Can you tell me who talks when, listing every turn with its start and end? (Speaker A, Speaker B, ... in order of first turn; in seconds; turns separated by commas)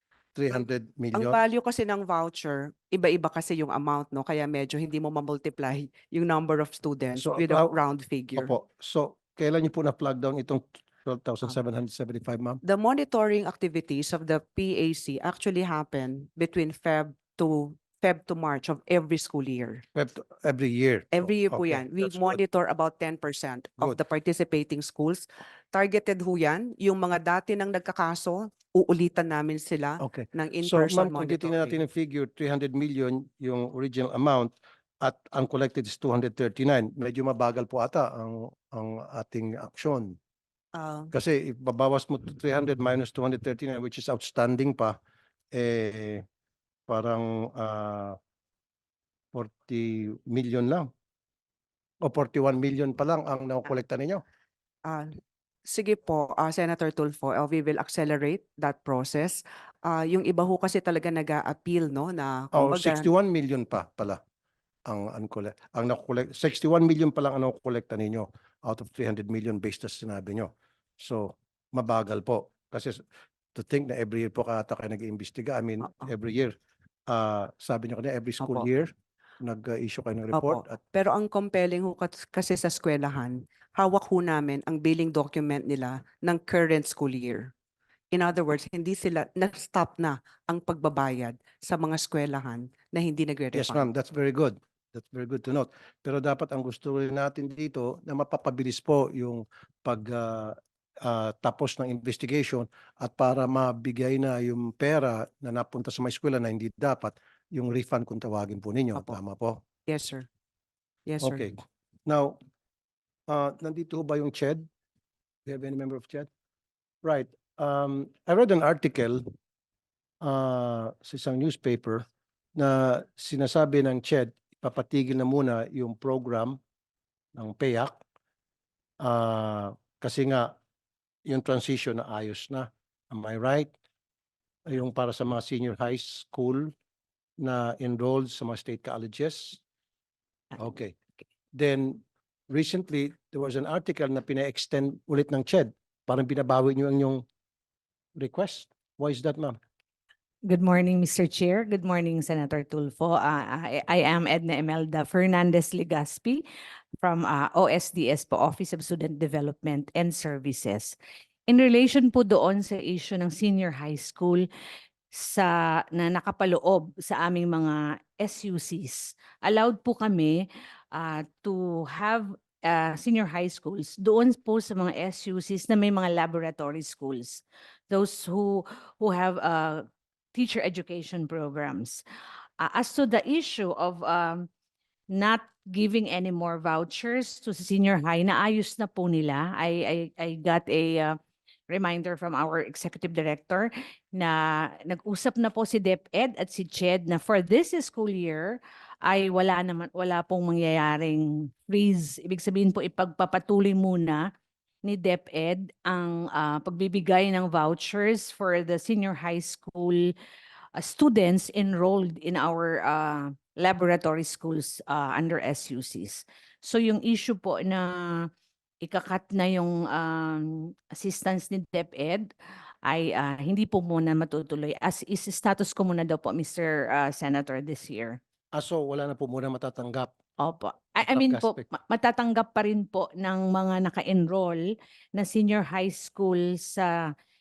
Speaker A: 0.3-1.4, Speaker B: 1.1-8.5, Speaker A: 7.1-7.7, Speaker A: 8.3-12.6, Speaker B: 12.6-19.8, Speaker A: 19.9-22.4, Speaker B: 21.1-31.7, Speaker A: 30.0-40.2, Speaker B: 40.7-41.1, Speaker A: 41.1-45.0, Speaker A: 45.5-46.2, Speaker A: 46.9-48.2, Speaker A: 49.3-50.9, Speaker A: 52.0-54.2, Speaker B: 54.8-55.1, Speaker B: 55.6-63.1, Speaker A: 62.5-64.2, Speaker A: 64.8-73.0, Speaker A: 73.5-76.5, Speaker A: 77.1-80.8, Speaker B: 78.4-78.7, Speaker B: 80.3-87.5, Speaker B: 88.1-93.8, Speaker A: 93.5-109.6, Speaker B: 109.9-110.3, Speaker B: 111.1-111.4, Speaker A: 111.2-112.4, Speaker A: 113.3-114.7, Speaker A: 115.4-116.3, Speaker A: 117.0-119.2, Speaker A: 120.2-126.6, Speaker A: 127.3-128.0, Speaker A: 129.0-130.5, Speaker A: 131.2-133.7, Speaker A: 134.7-136.7, Speaker A: 137.4-139.6, Speaker A: 140.6-140.9, Speaker A: 141.5-147.2, Speaker A: 148.2-149.6, Speaker C: 150.5-156.4, Speaker C: 157.0-160.9, Speaker C: 161.5-164.4, Speaker C: 165.1-170.4, Speaker C: 170.9-182.0, Speaker C: 182.6-184.5, Speaker C: 185.1-191.2, Speaker C: 191.7-204.3, Speaker C: 204.8-210.1, Speaker C: 210.8-218.3, Speaker C: 218.8-222.3, Speaker C: 222.8-228.2, Speaker A: 228.5-230.1, Speaker C: 230.4-237.0, Speaker A: 231.0-231.6